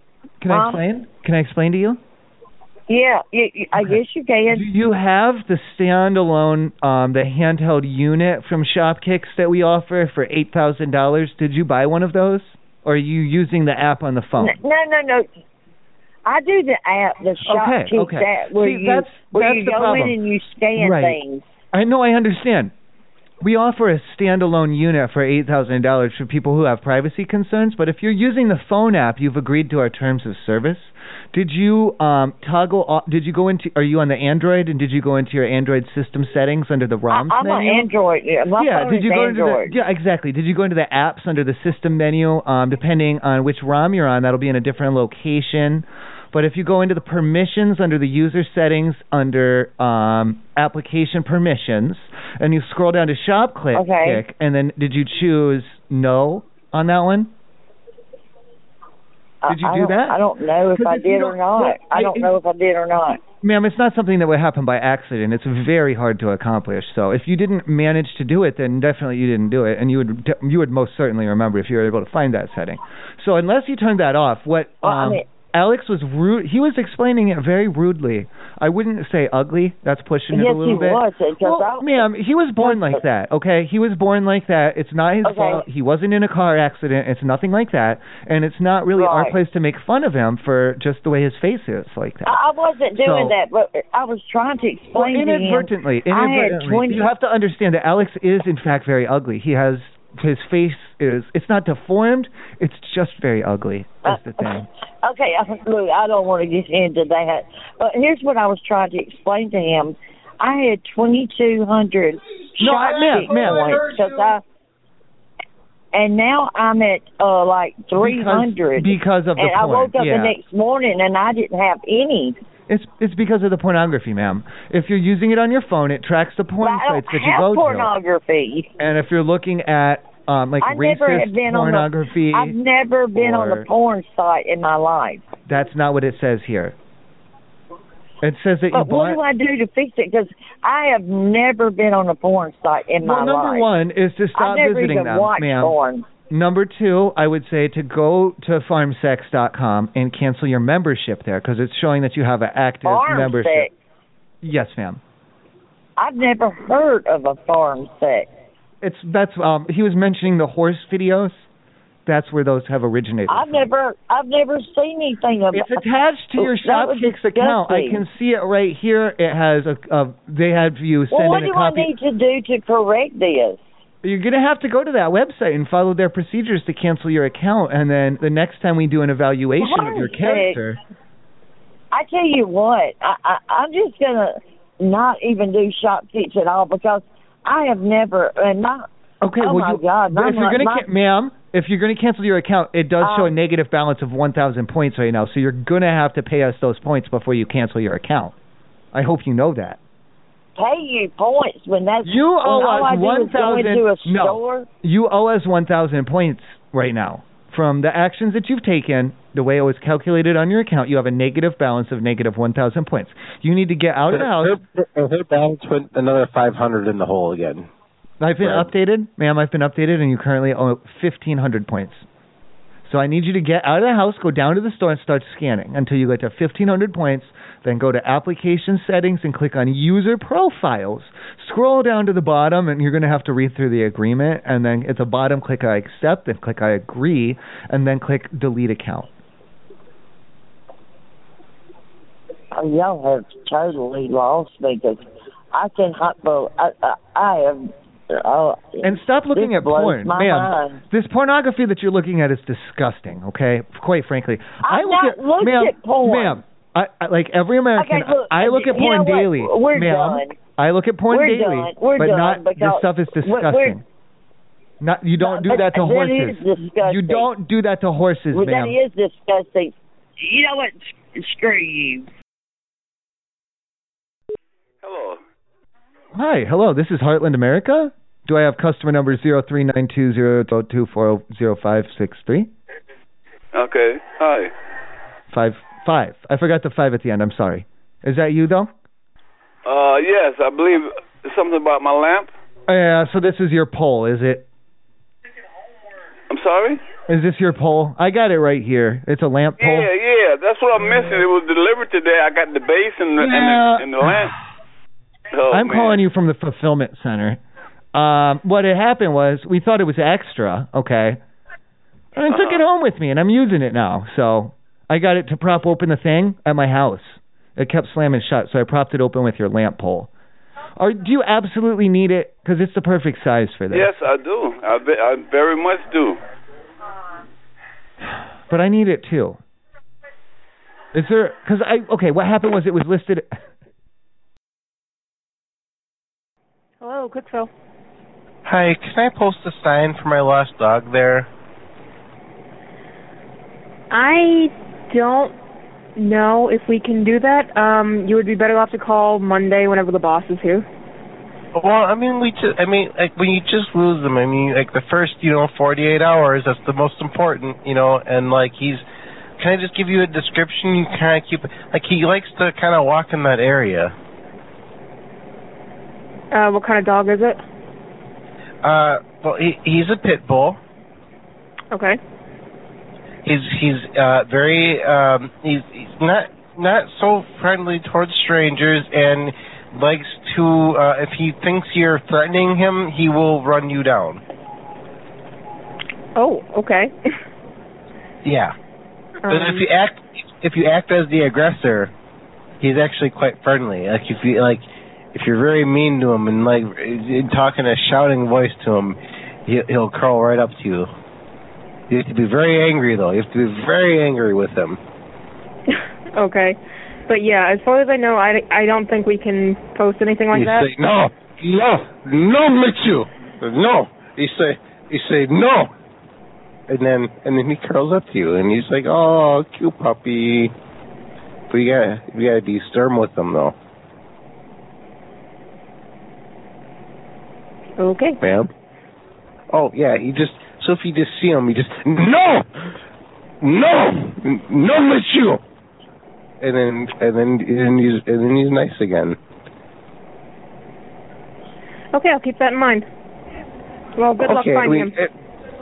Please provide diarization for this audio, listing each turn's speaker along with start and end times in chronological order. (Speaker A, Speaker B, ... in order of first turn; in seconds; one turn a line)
Speaker A: 0.4-2.0
Speaker B: 0.5-0.8
Speaker B: 2.9-4.7
Speaker A: 4.5-14.6
Speaker B: 14.4-15.3
Speaker B: 16.3-21.5
Speaker A: 17.4-20.1
Speaker A: 20.8-21.2
Speaker A: 21.7-22.7
Speaker A: 23.4-37.9
Speaker B: 37.1-39.7
Speaker A: 38.6-57.3
Speaker B: 53.7-54.2
Speaker B: 59.4-63.2
Speaker A: 59.5-60.2
Speaker A: 60.7-62.3
Speaker A: 63.4-92.4
Speaker B: 74.8-75.2
Speaker B: 80.3-82.0
Speaker B: 82.6-83.0
Speaker B: 85.2-85.6
Speaker B: 89.0-89.3
Speaker B: 92.3-97.1
Speaker A: 93.0-93.3
Speaker A: 94.9-104.7
Speaker B: 104.0-114.4
Speaker A: 112.6-114.0
Speaker B: 115.9-122.4
Speaker A: 118.0-120.3
Speaker A: 122.7-127.9
Speaker B: 126.6-128.7
Speaker A: 128.8-132.6
Speaker B: 130.6-135.3
Speaker A: 133.1-133.7
Speaker A: 135.5-136.7
Speaker A: 138.2-139.2
Speaker B: 138.7-143.7
Speaker A: 143.0-145.8
Speaker B: 144.3-146.1
Speaker A: 146.3-153.7
Speaker B: 152.8-153.7
Speaker A: 154.4-155.0
Speaker B: 156.0-158.3
Speaker A: 158.8-161.5
Speaker A: 162.1-163.7
Speaker B: 163.3-165.8
Speaker A: 165.5-171.9
Speaker B: 166.4-168.0
Speaker B: 171.1-173.6
Speaker A: 174.0-180.8
Speaker B: 179.6-180.6
Speaker B: 181.9-188.9
Speaker A: 189.2-198.3
Speaker B: 189.4-190.8
Speaker B: 193.0-193.3
Speaker A: 198.9-199.8
Speaker B: 200.6-204.7
Speaker A: 202.0-214.6
Speaker C: 214.1-217.7
Speaker A: 218.2-222.1
Speaker C: 218.4-218.7
Speaker A: 222.9-239.1
Speaker B: 242.5-250.8
Speaker A: 248.8-263.8
Speaker B: 254.6-256.4
Speaker B: 257.8-260.4
Speaker B: 261.1-263.8
Speaker A: 264.8-268.8
Speaker B: 265.2-267.3
Speaker B: 268.3-272.1
Speaker D: 274.8-275.2
Speaker A: 276.1-282.5
Speaker D: 283.5-284.5
Speaker A: 285.3-288.7
Speaker D: 289.6-292.3
Speaker A: 292.7-294.5
Speaker D: 296.3-296.8
Speaker A: 297.1-299.9
Speaker D: 299.6-304.3
Speaker A: 303.2-304.3
Speaker D: 305.3-306.0
Speaker A: 305.5-307.4
Speaker A: 307.9-311.2
Speaker A: 312.2-320.1
Speaker D: 312.3-312.6
Speaker A: 320.8-323.9
Speaker D: 323.7-326.2
Speaker A: 328.5-329.4
Speaker A: 330.9-333.3
Speaker E: 336.8-337.5
Speaker C: 338.4-341.3
Speaker E: 343.9-345.4
Speaker E: 345.9-350.7
Speaker C: 351.6-358.8
Speaker C: 359.4-363.9
Speaker E: 366.3-367.4
Speaker C: 368.6-370.6
Speaker E: 371.7-372.0
Speaker C: 373.2-384.2
Speaker E: 386.2-386.9
Speaker C: 388.2-388.5
Speaker E: 389.2-389.7
Speaker C: 389.3-391.9
Speaker C: 392.6-394.6
Speaker C: 395.1-400.9
Speaker C: 401.9-404.8
Speaker E: 406.1-410.7
Speaker C: 410.3-415.7
Speaker C: 416.7-420.5
Speaker C: 421.5-423.5
Speaker E: 427.8-428.2
Speaker C: 428.2-428.5
Speaker C: 429.5-432.4
Speaker C: 433.4-435.4
Speaker C: 436.4-439.2
Speaker E: 441.9-442.9
Speaker E: 444.0-444.9
Speaker C: 444.2-445.1